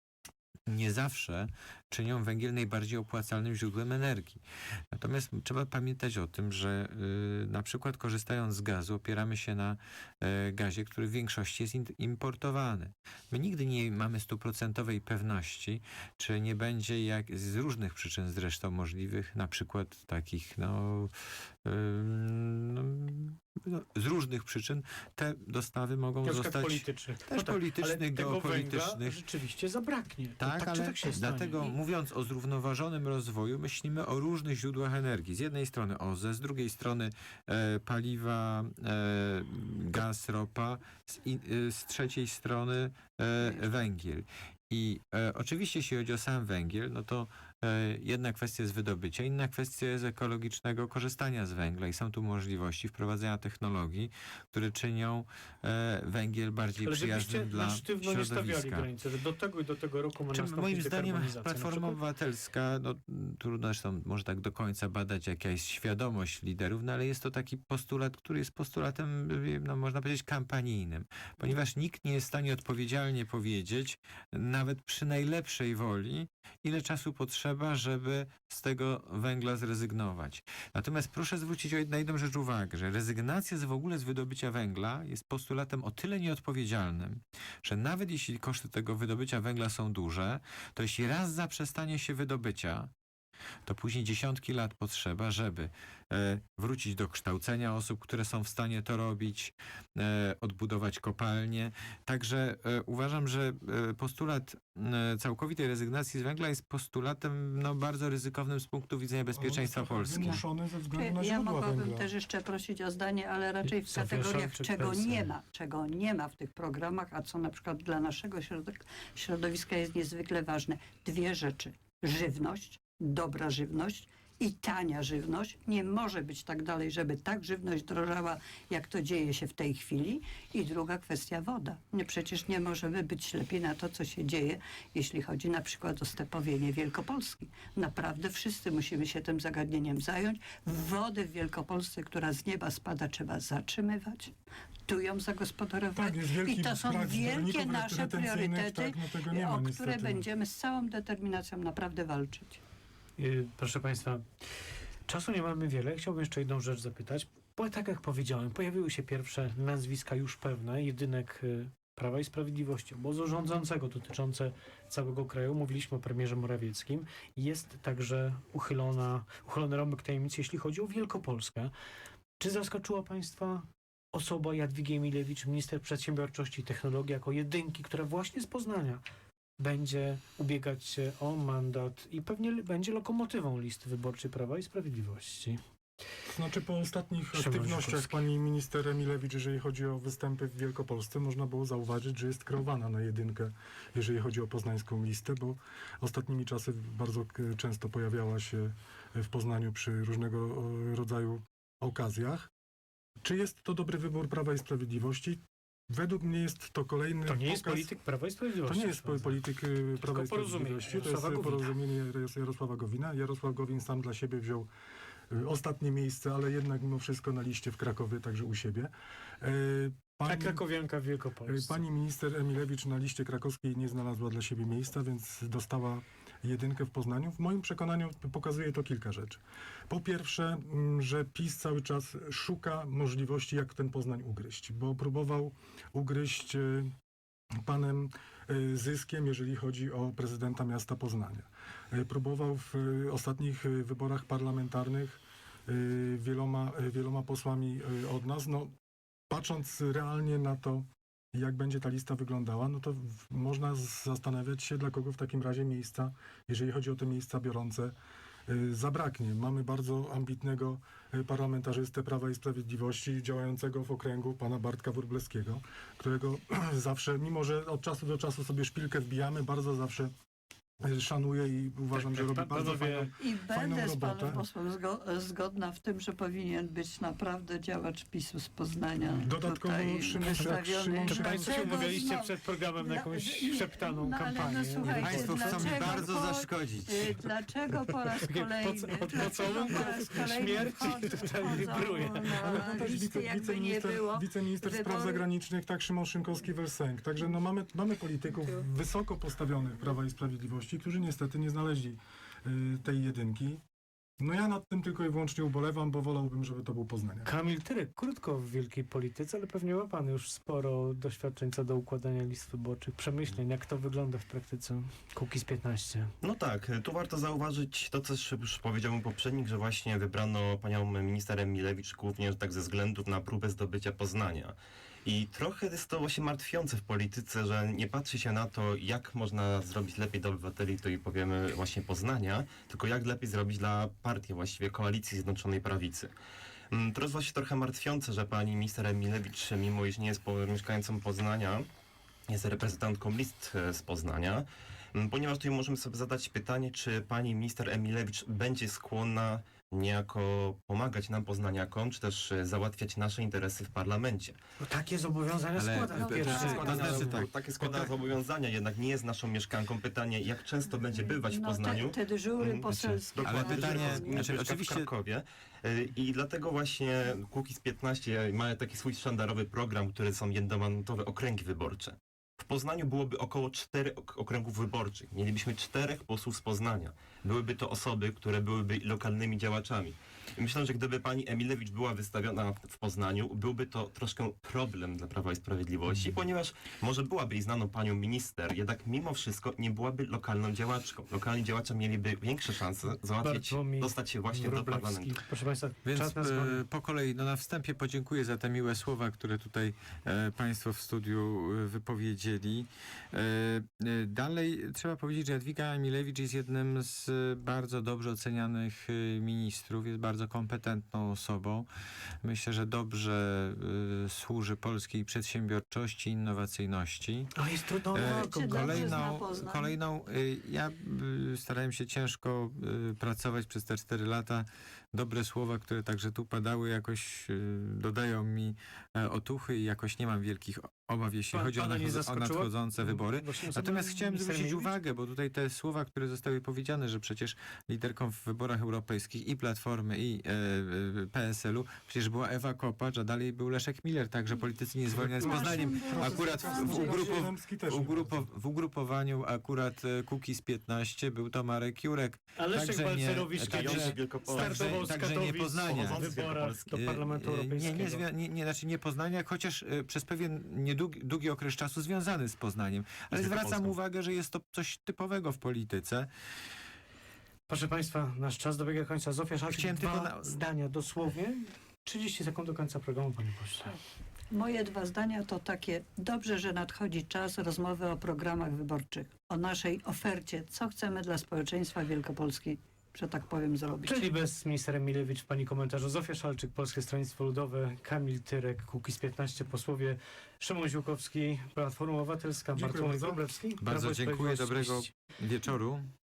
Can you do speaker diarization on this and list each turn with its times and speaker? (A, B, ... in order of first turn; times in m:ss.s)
0:00.7-0:21.1 A
0:21.6-0:29.2 A
0:26.2-0:31.7 B
0:30.4-0:58.9 A
0:56.8-1:02.0 B
1:00.3-1:32.9 A
1:33.6-1:50.4 A
1:49.4-1:52.1 C
1:50.9-2:24.3 D
1:53.7-1:55.3 B
2:24.9-2:32.6 D
2:25.9-2:30.2 C
2:33.2-2:34.2 B
2:35.1-2:51.7 B
2:52.4-2:59.0 B
2:59.6-3:05.6 B
3:06.2-3:22.5 C
3:07.3-3:08.2 B
3:23.2-3:27.9 C
3:27.2-3:29.4 B
3:28.7-3:34.7 C
3:30.0-3:31.7 B
3:35.3-3:40.6 C
3:40.3-3:41.8 B
3:41.4-3:56.9 C
3:57.6-4:08.7 C
4:09.3-4:17.9 C
4:18.5-4:30.1 C
4:30.8-4:34.4 C
4:31.9-4:33.1 B
4:33.2-4:55.2 D
4:39.1-4:42.0 C
4:41.1-4:46.0 B
4:44.8-4:47.2 A
4:48.2-4:52.8 B
4:52.4-5:03.6 C
5:04.2-5:07.3 C
5:07.2-5:16.1 B
5:16.2-5:36.1 E
5:36.7-5:41.6 E
5:42.3-5:54.4 E
5:54.6-5:57.2 B
5:55.6-5:57.9 A
5:55.9-5:57.0 D
5:56.1-6:35.2 E
6:00.9-6:04.4 D
6:03.2-6:04.9 A
6:33.2-6:36.6 B
6:35.8-6:51.7 A
6:52.2-6:57.3 A
6:57.3-6:59.0 B
6:57.9-7:46.1 A
6:57.9-6:59.8 D
7:11.3-7:14.7 B
7:24.9-7:28.2 C
7:25.2-7:27.3 D
7:32.4-7:38.0 B
7:33.4-7:34.9 E
7:35.6-7:36.6 E
7:43.1-7:43.7 E
7:47.5-7:53.8 B
7:49.5-7:50.4 A
7:54.3-8:04.1 D
8:03.8-8:14.9 B
8:12.5-8:13.2 C
8:13.6-8:15.9 A